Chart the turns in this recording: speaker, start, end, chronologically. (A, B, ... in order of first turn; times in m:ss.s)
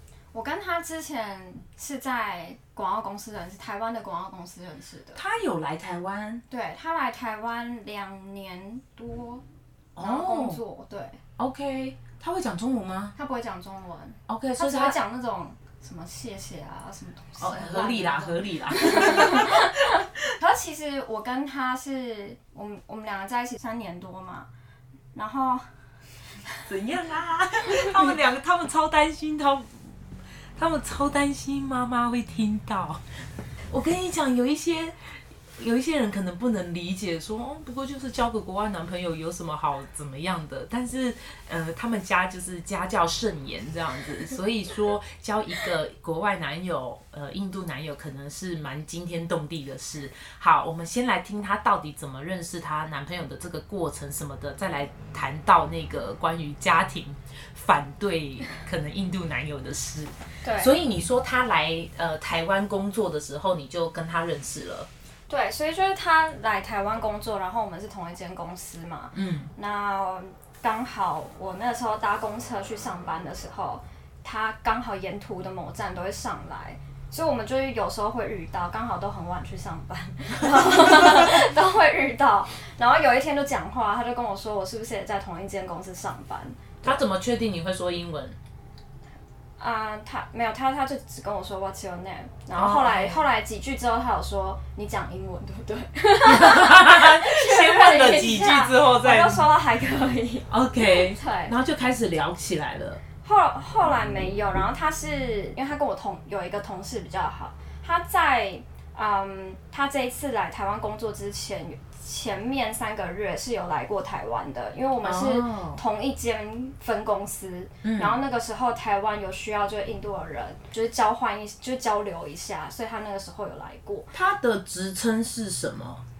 0:00.3-0:05.2 A
0:05.2-0:06.4 B
0:06.5-0:09.4 A
0:10.0-0:10.6 B
0:10.0-0:11.2 A
0:11.4-0:13.2 B
0:13.2-0:24.5 A
0:14.3-0:15.0 B
0:17.4-0:19.9 B
0:25.2-0:25.7 A
0:26.7-0:29.7 B
0:30.6-0:33.0 B
0:33.7-0:35.0 B
0:35.6-1:04.9 B
1:00.4-1:00.8 A
1:05.3-1:27.0 A
1:09.1-1:09.5 B
1:20.4-1:21.4 B
1:26.8-1:28.4 B
1:29.6-1:41.6 A
1:32.6-1:33.2 B
1:36.2-1:39.4 B
1:40.5-1:43.0 B
1:43.2-2:04.1 A
1:55.0-1:55.8 B
1:57.8-1:58.2 B
2:04.1-2:06.0 B